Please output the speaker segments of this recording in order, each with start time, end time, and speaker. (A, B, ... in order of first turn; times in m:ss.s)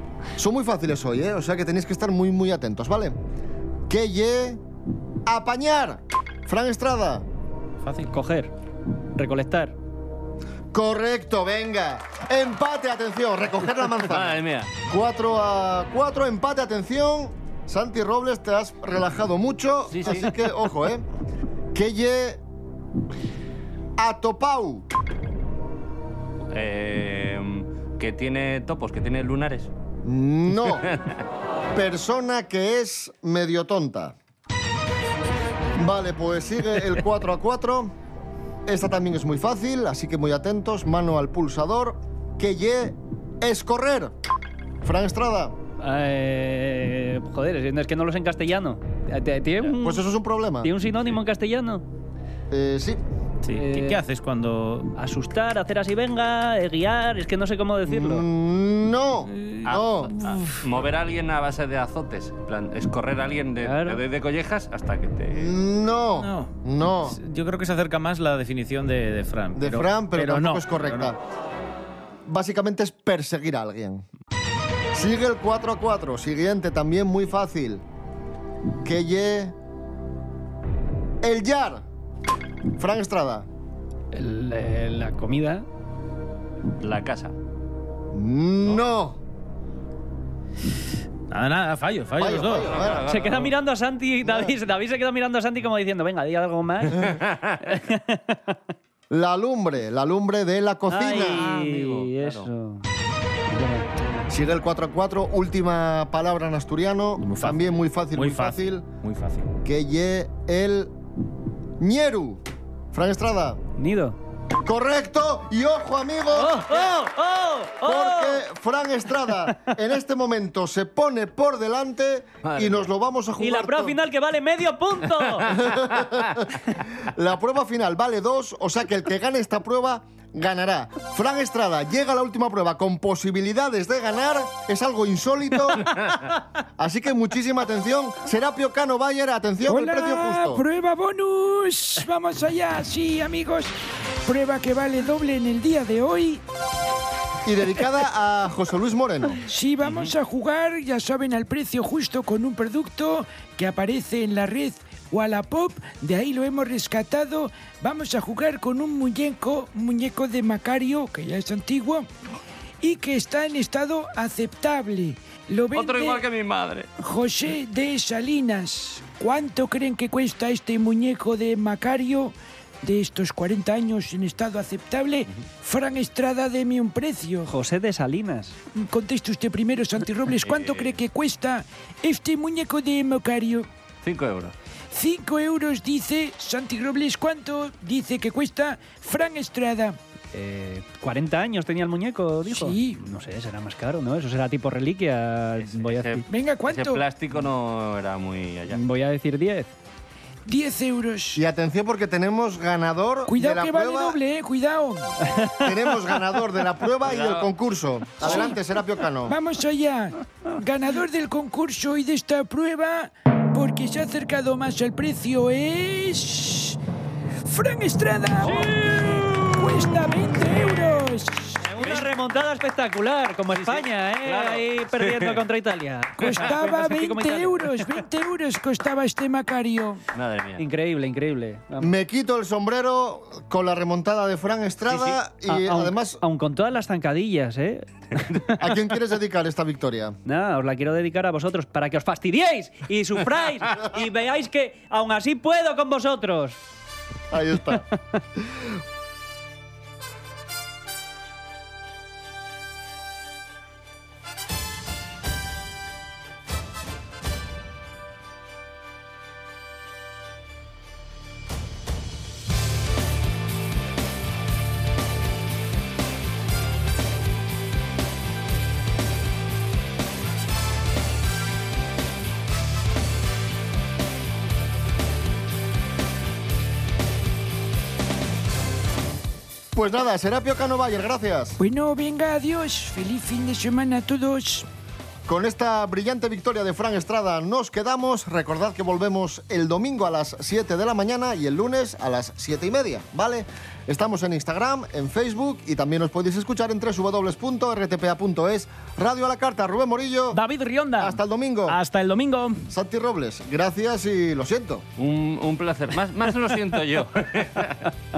0:00.4-0:03.2 A
0:03.9-0:04.6 A
0:05.2-0:07.3 A
0:07.8-0:08.1 B
0:08.1-0:08.5 C
0:09.2-0:09.7 C
0:10.7-0:21.0 A
0:14.1-0:14.7 D
0:19.9-0:20.3 D
0:21.7-0:22.4 A
0:24.0-0:24.9 A
0:26.5-0:29.7 D
0:30.0-0:30.9 A
0:30.7-0:31.2 D
0:31.7-0:34.1 A
0:35.8-0:37.9 A
0:38.6-0:44.1 A
0:44.8-0:45.6 A
0:45.8-0:50.0 C
0:49.8-0:50.7 A
0:50.6-0:51.8 C
0:52.5-0:53.0 A
0:53.4-0:54.9 B
0:53.5-0:54.0 C
0:55.0-0:58.2 C
0:57.8-1:00.1 A
0:59.6-1:05.5 D
1:00.3-1:00.5 B
1:03.6-1:04.0 C
1:05.3-1:07.2 A
1:06.2-1:11.1 B
1:09.6-1:11.2 A
1:12.2-1:14.0 A
1:14.9-1:17.8 A
1:18.8-1:19.5 A
1:21.2-1:21.8 A
1:22.8-1:23.5 A
1:24.1-1:25.6 C
1:26.8-1:27.3 D
1:28.1-1:29.2 A
1:31.3-1:32.7 B
1:32.2-1:33.0 A
1:32.5-1:33.6 D
1:33.1-1:38.4 C
1:34.2-1:34.5 A
1:37.0-1:37.6 D
1:39.1-1:41.4 A
1:40.9-1:42.8 C
1:41.2-1:42.5 D
1:43.5-1:43.9 C
1:44.3-1:48.8 A
1:47.2-1:47.6 B
1:48.1-1:49.5 B
1:49.6-1:50.9 A
1:51.8-1:53.6 A
1:53.8-1:54.2 C
1:54.6-1:57.1 A
1:56.3-1:58.4 C
1:57.8-2:04.0 A
2:02.4-2:02.9 D
2:03.4-2:05.5 C
2:05.5-2:15.9 A
2:16.8-2:20.6 A
2:19.7-2:23.7 E
2:24.2-2:26.4 E
2:27.4-2:29.4 A
2:29.5-2:42.1 E
2:29.8-2:30.1 D
2:42.8-2:46.2 E
2:45.7-2:46.9 D
2:47.0-2:57.5 E
2:57.5-2:58.6 C
2:58.7-3:03.7 E
3:00.4-3:01.0 D
3:04.0-3:04.5 D
3:04.9-3:10.0 E
3:10.3-3:16.2 C
3:12.5-3:13.0 E
3:15.6-3:18.8 D
3:16.3-3:17.0 E
3:18.7-3:19.7 C
3:20.4-3:21.4 E
3:21.3-3:24.2 A
3:23.3-3:25.1 E
3:25.6-3:29.4 A
3:27.0-3:27.5 D
3:29.3-3:36.8 E
3:37.4-3:41.6 E
3:38.4-3:40.2 D
3:41.7-3:42.1 D
3:41.7-3:47.9 C
3:43.6-3:45.4 D
3:46.2-3:50.0 E
3:46.2-3:46.5 D
3:50.1-3:50.6 D
3:50.6-3:51.9 C
3:51.8-3:56.2 A
3:54.9-3:57.9 C
3:58.6-4:00.2 A
4:00.2-4:06.6 C
4:07.3-4:07.8 A
4:39.7-4:41.6 A
4:41.6-4:44.7 E
4:45.3-5:00.4 A
5:00.3-5:02.6 B
5:01.0-5:01.8 A
5:02.7-5:04.8 A
5:05.0-5:07.8 D